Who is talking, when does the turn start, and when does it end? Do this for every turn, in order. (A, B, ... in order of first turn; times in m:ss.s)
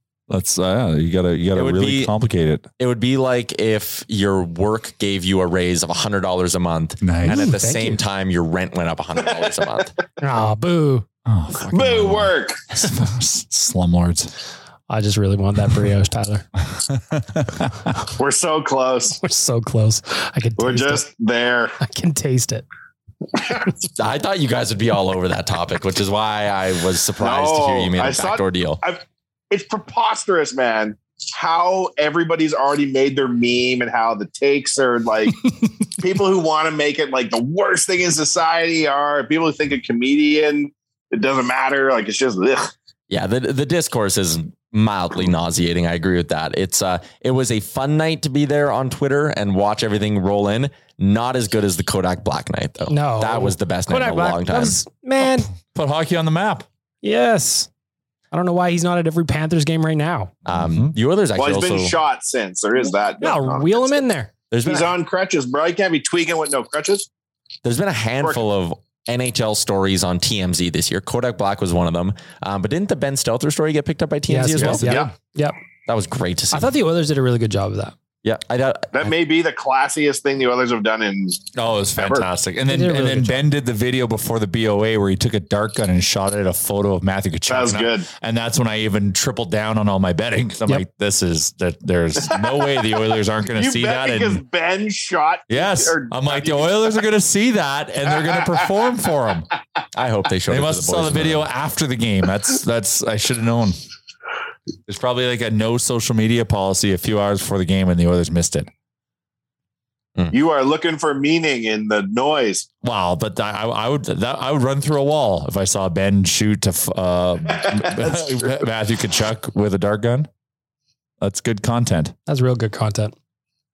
0:00.3-0:02.7 A
0:01.6-0:02.1 B
0:02.8-0:09.9 B
0:07.0-0:07.5 A
0:07.2-0:08.0 C
0:10.2-0:11.0 C
0:11.2-0:14.3 A
0:11.7-0:12.6 D
0:14.9-0:16.4 C
0:16.8-0:17.9 A
0:18.2-0:19.2 D
0:19.2-0:21.0 C
0:20.6-0:21.7 D
0:21.8-0:22.6 C
0:23.4-0:23.7 D
0:24.0-0:28.8 B
0:27.2-0:42.7 D
0:43.1-0:54.8 B
0:52.9-0:55.5 C
0:55.6-0:56.7 A
0:57.0-0:57.7 C
0:58.3-1:00.3 C
1:00.4-1:00.9 A
1:00.5-1:02.0 B
1:01.4-1:04.0 D
1:03.2-1:04.3 C
1:04.5-1:04.9 B
1:04.6-1:07.1 D
1:07.6-1:14.8 B
1:14.3-1:15.6 C
1:14.6-1:15.1 A
1:15.9-1:16.7 B
1:16.5-1:17.9 C
1:18.2-1:19.0 B
1:18.9-1:22.2 D
1:21.6-1:34.4 A
1:22.7-1:23.4 C
1:27.5-1:28.1 D
1:32.2-1:32.9 D
1:33.5-1:36.9 D
1:35.5-1:39.5 A
1:39.9-1:41.4 B
1:40.5-1:43.8 A
1:44.9-1:48.7 A
1:50.3-1:52.6 D
1:52.8-2:00.3 A
1:57.5-1:58.6 D
2:01.2-2:02.1 A
2:02.3-2:03.1 C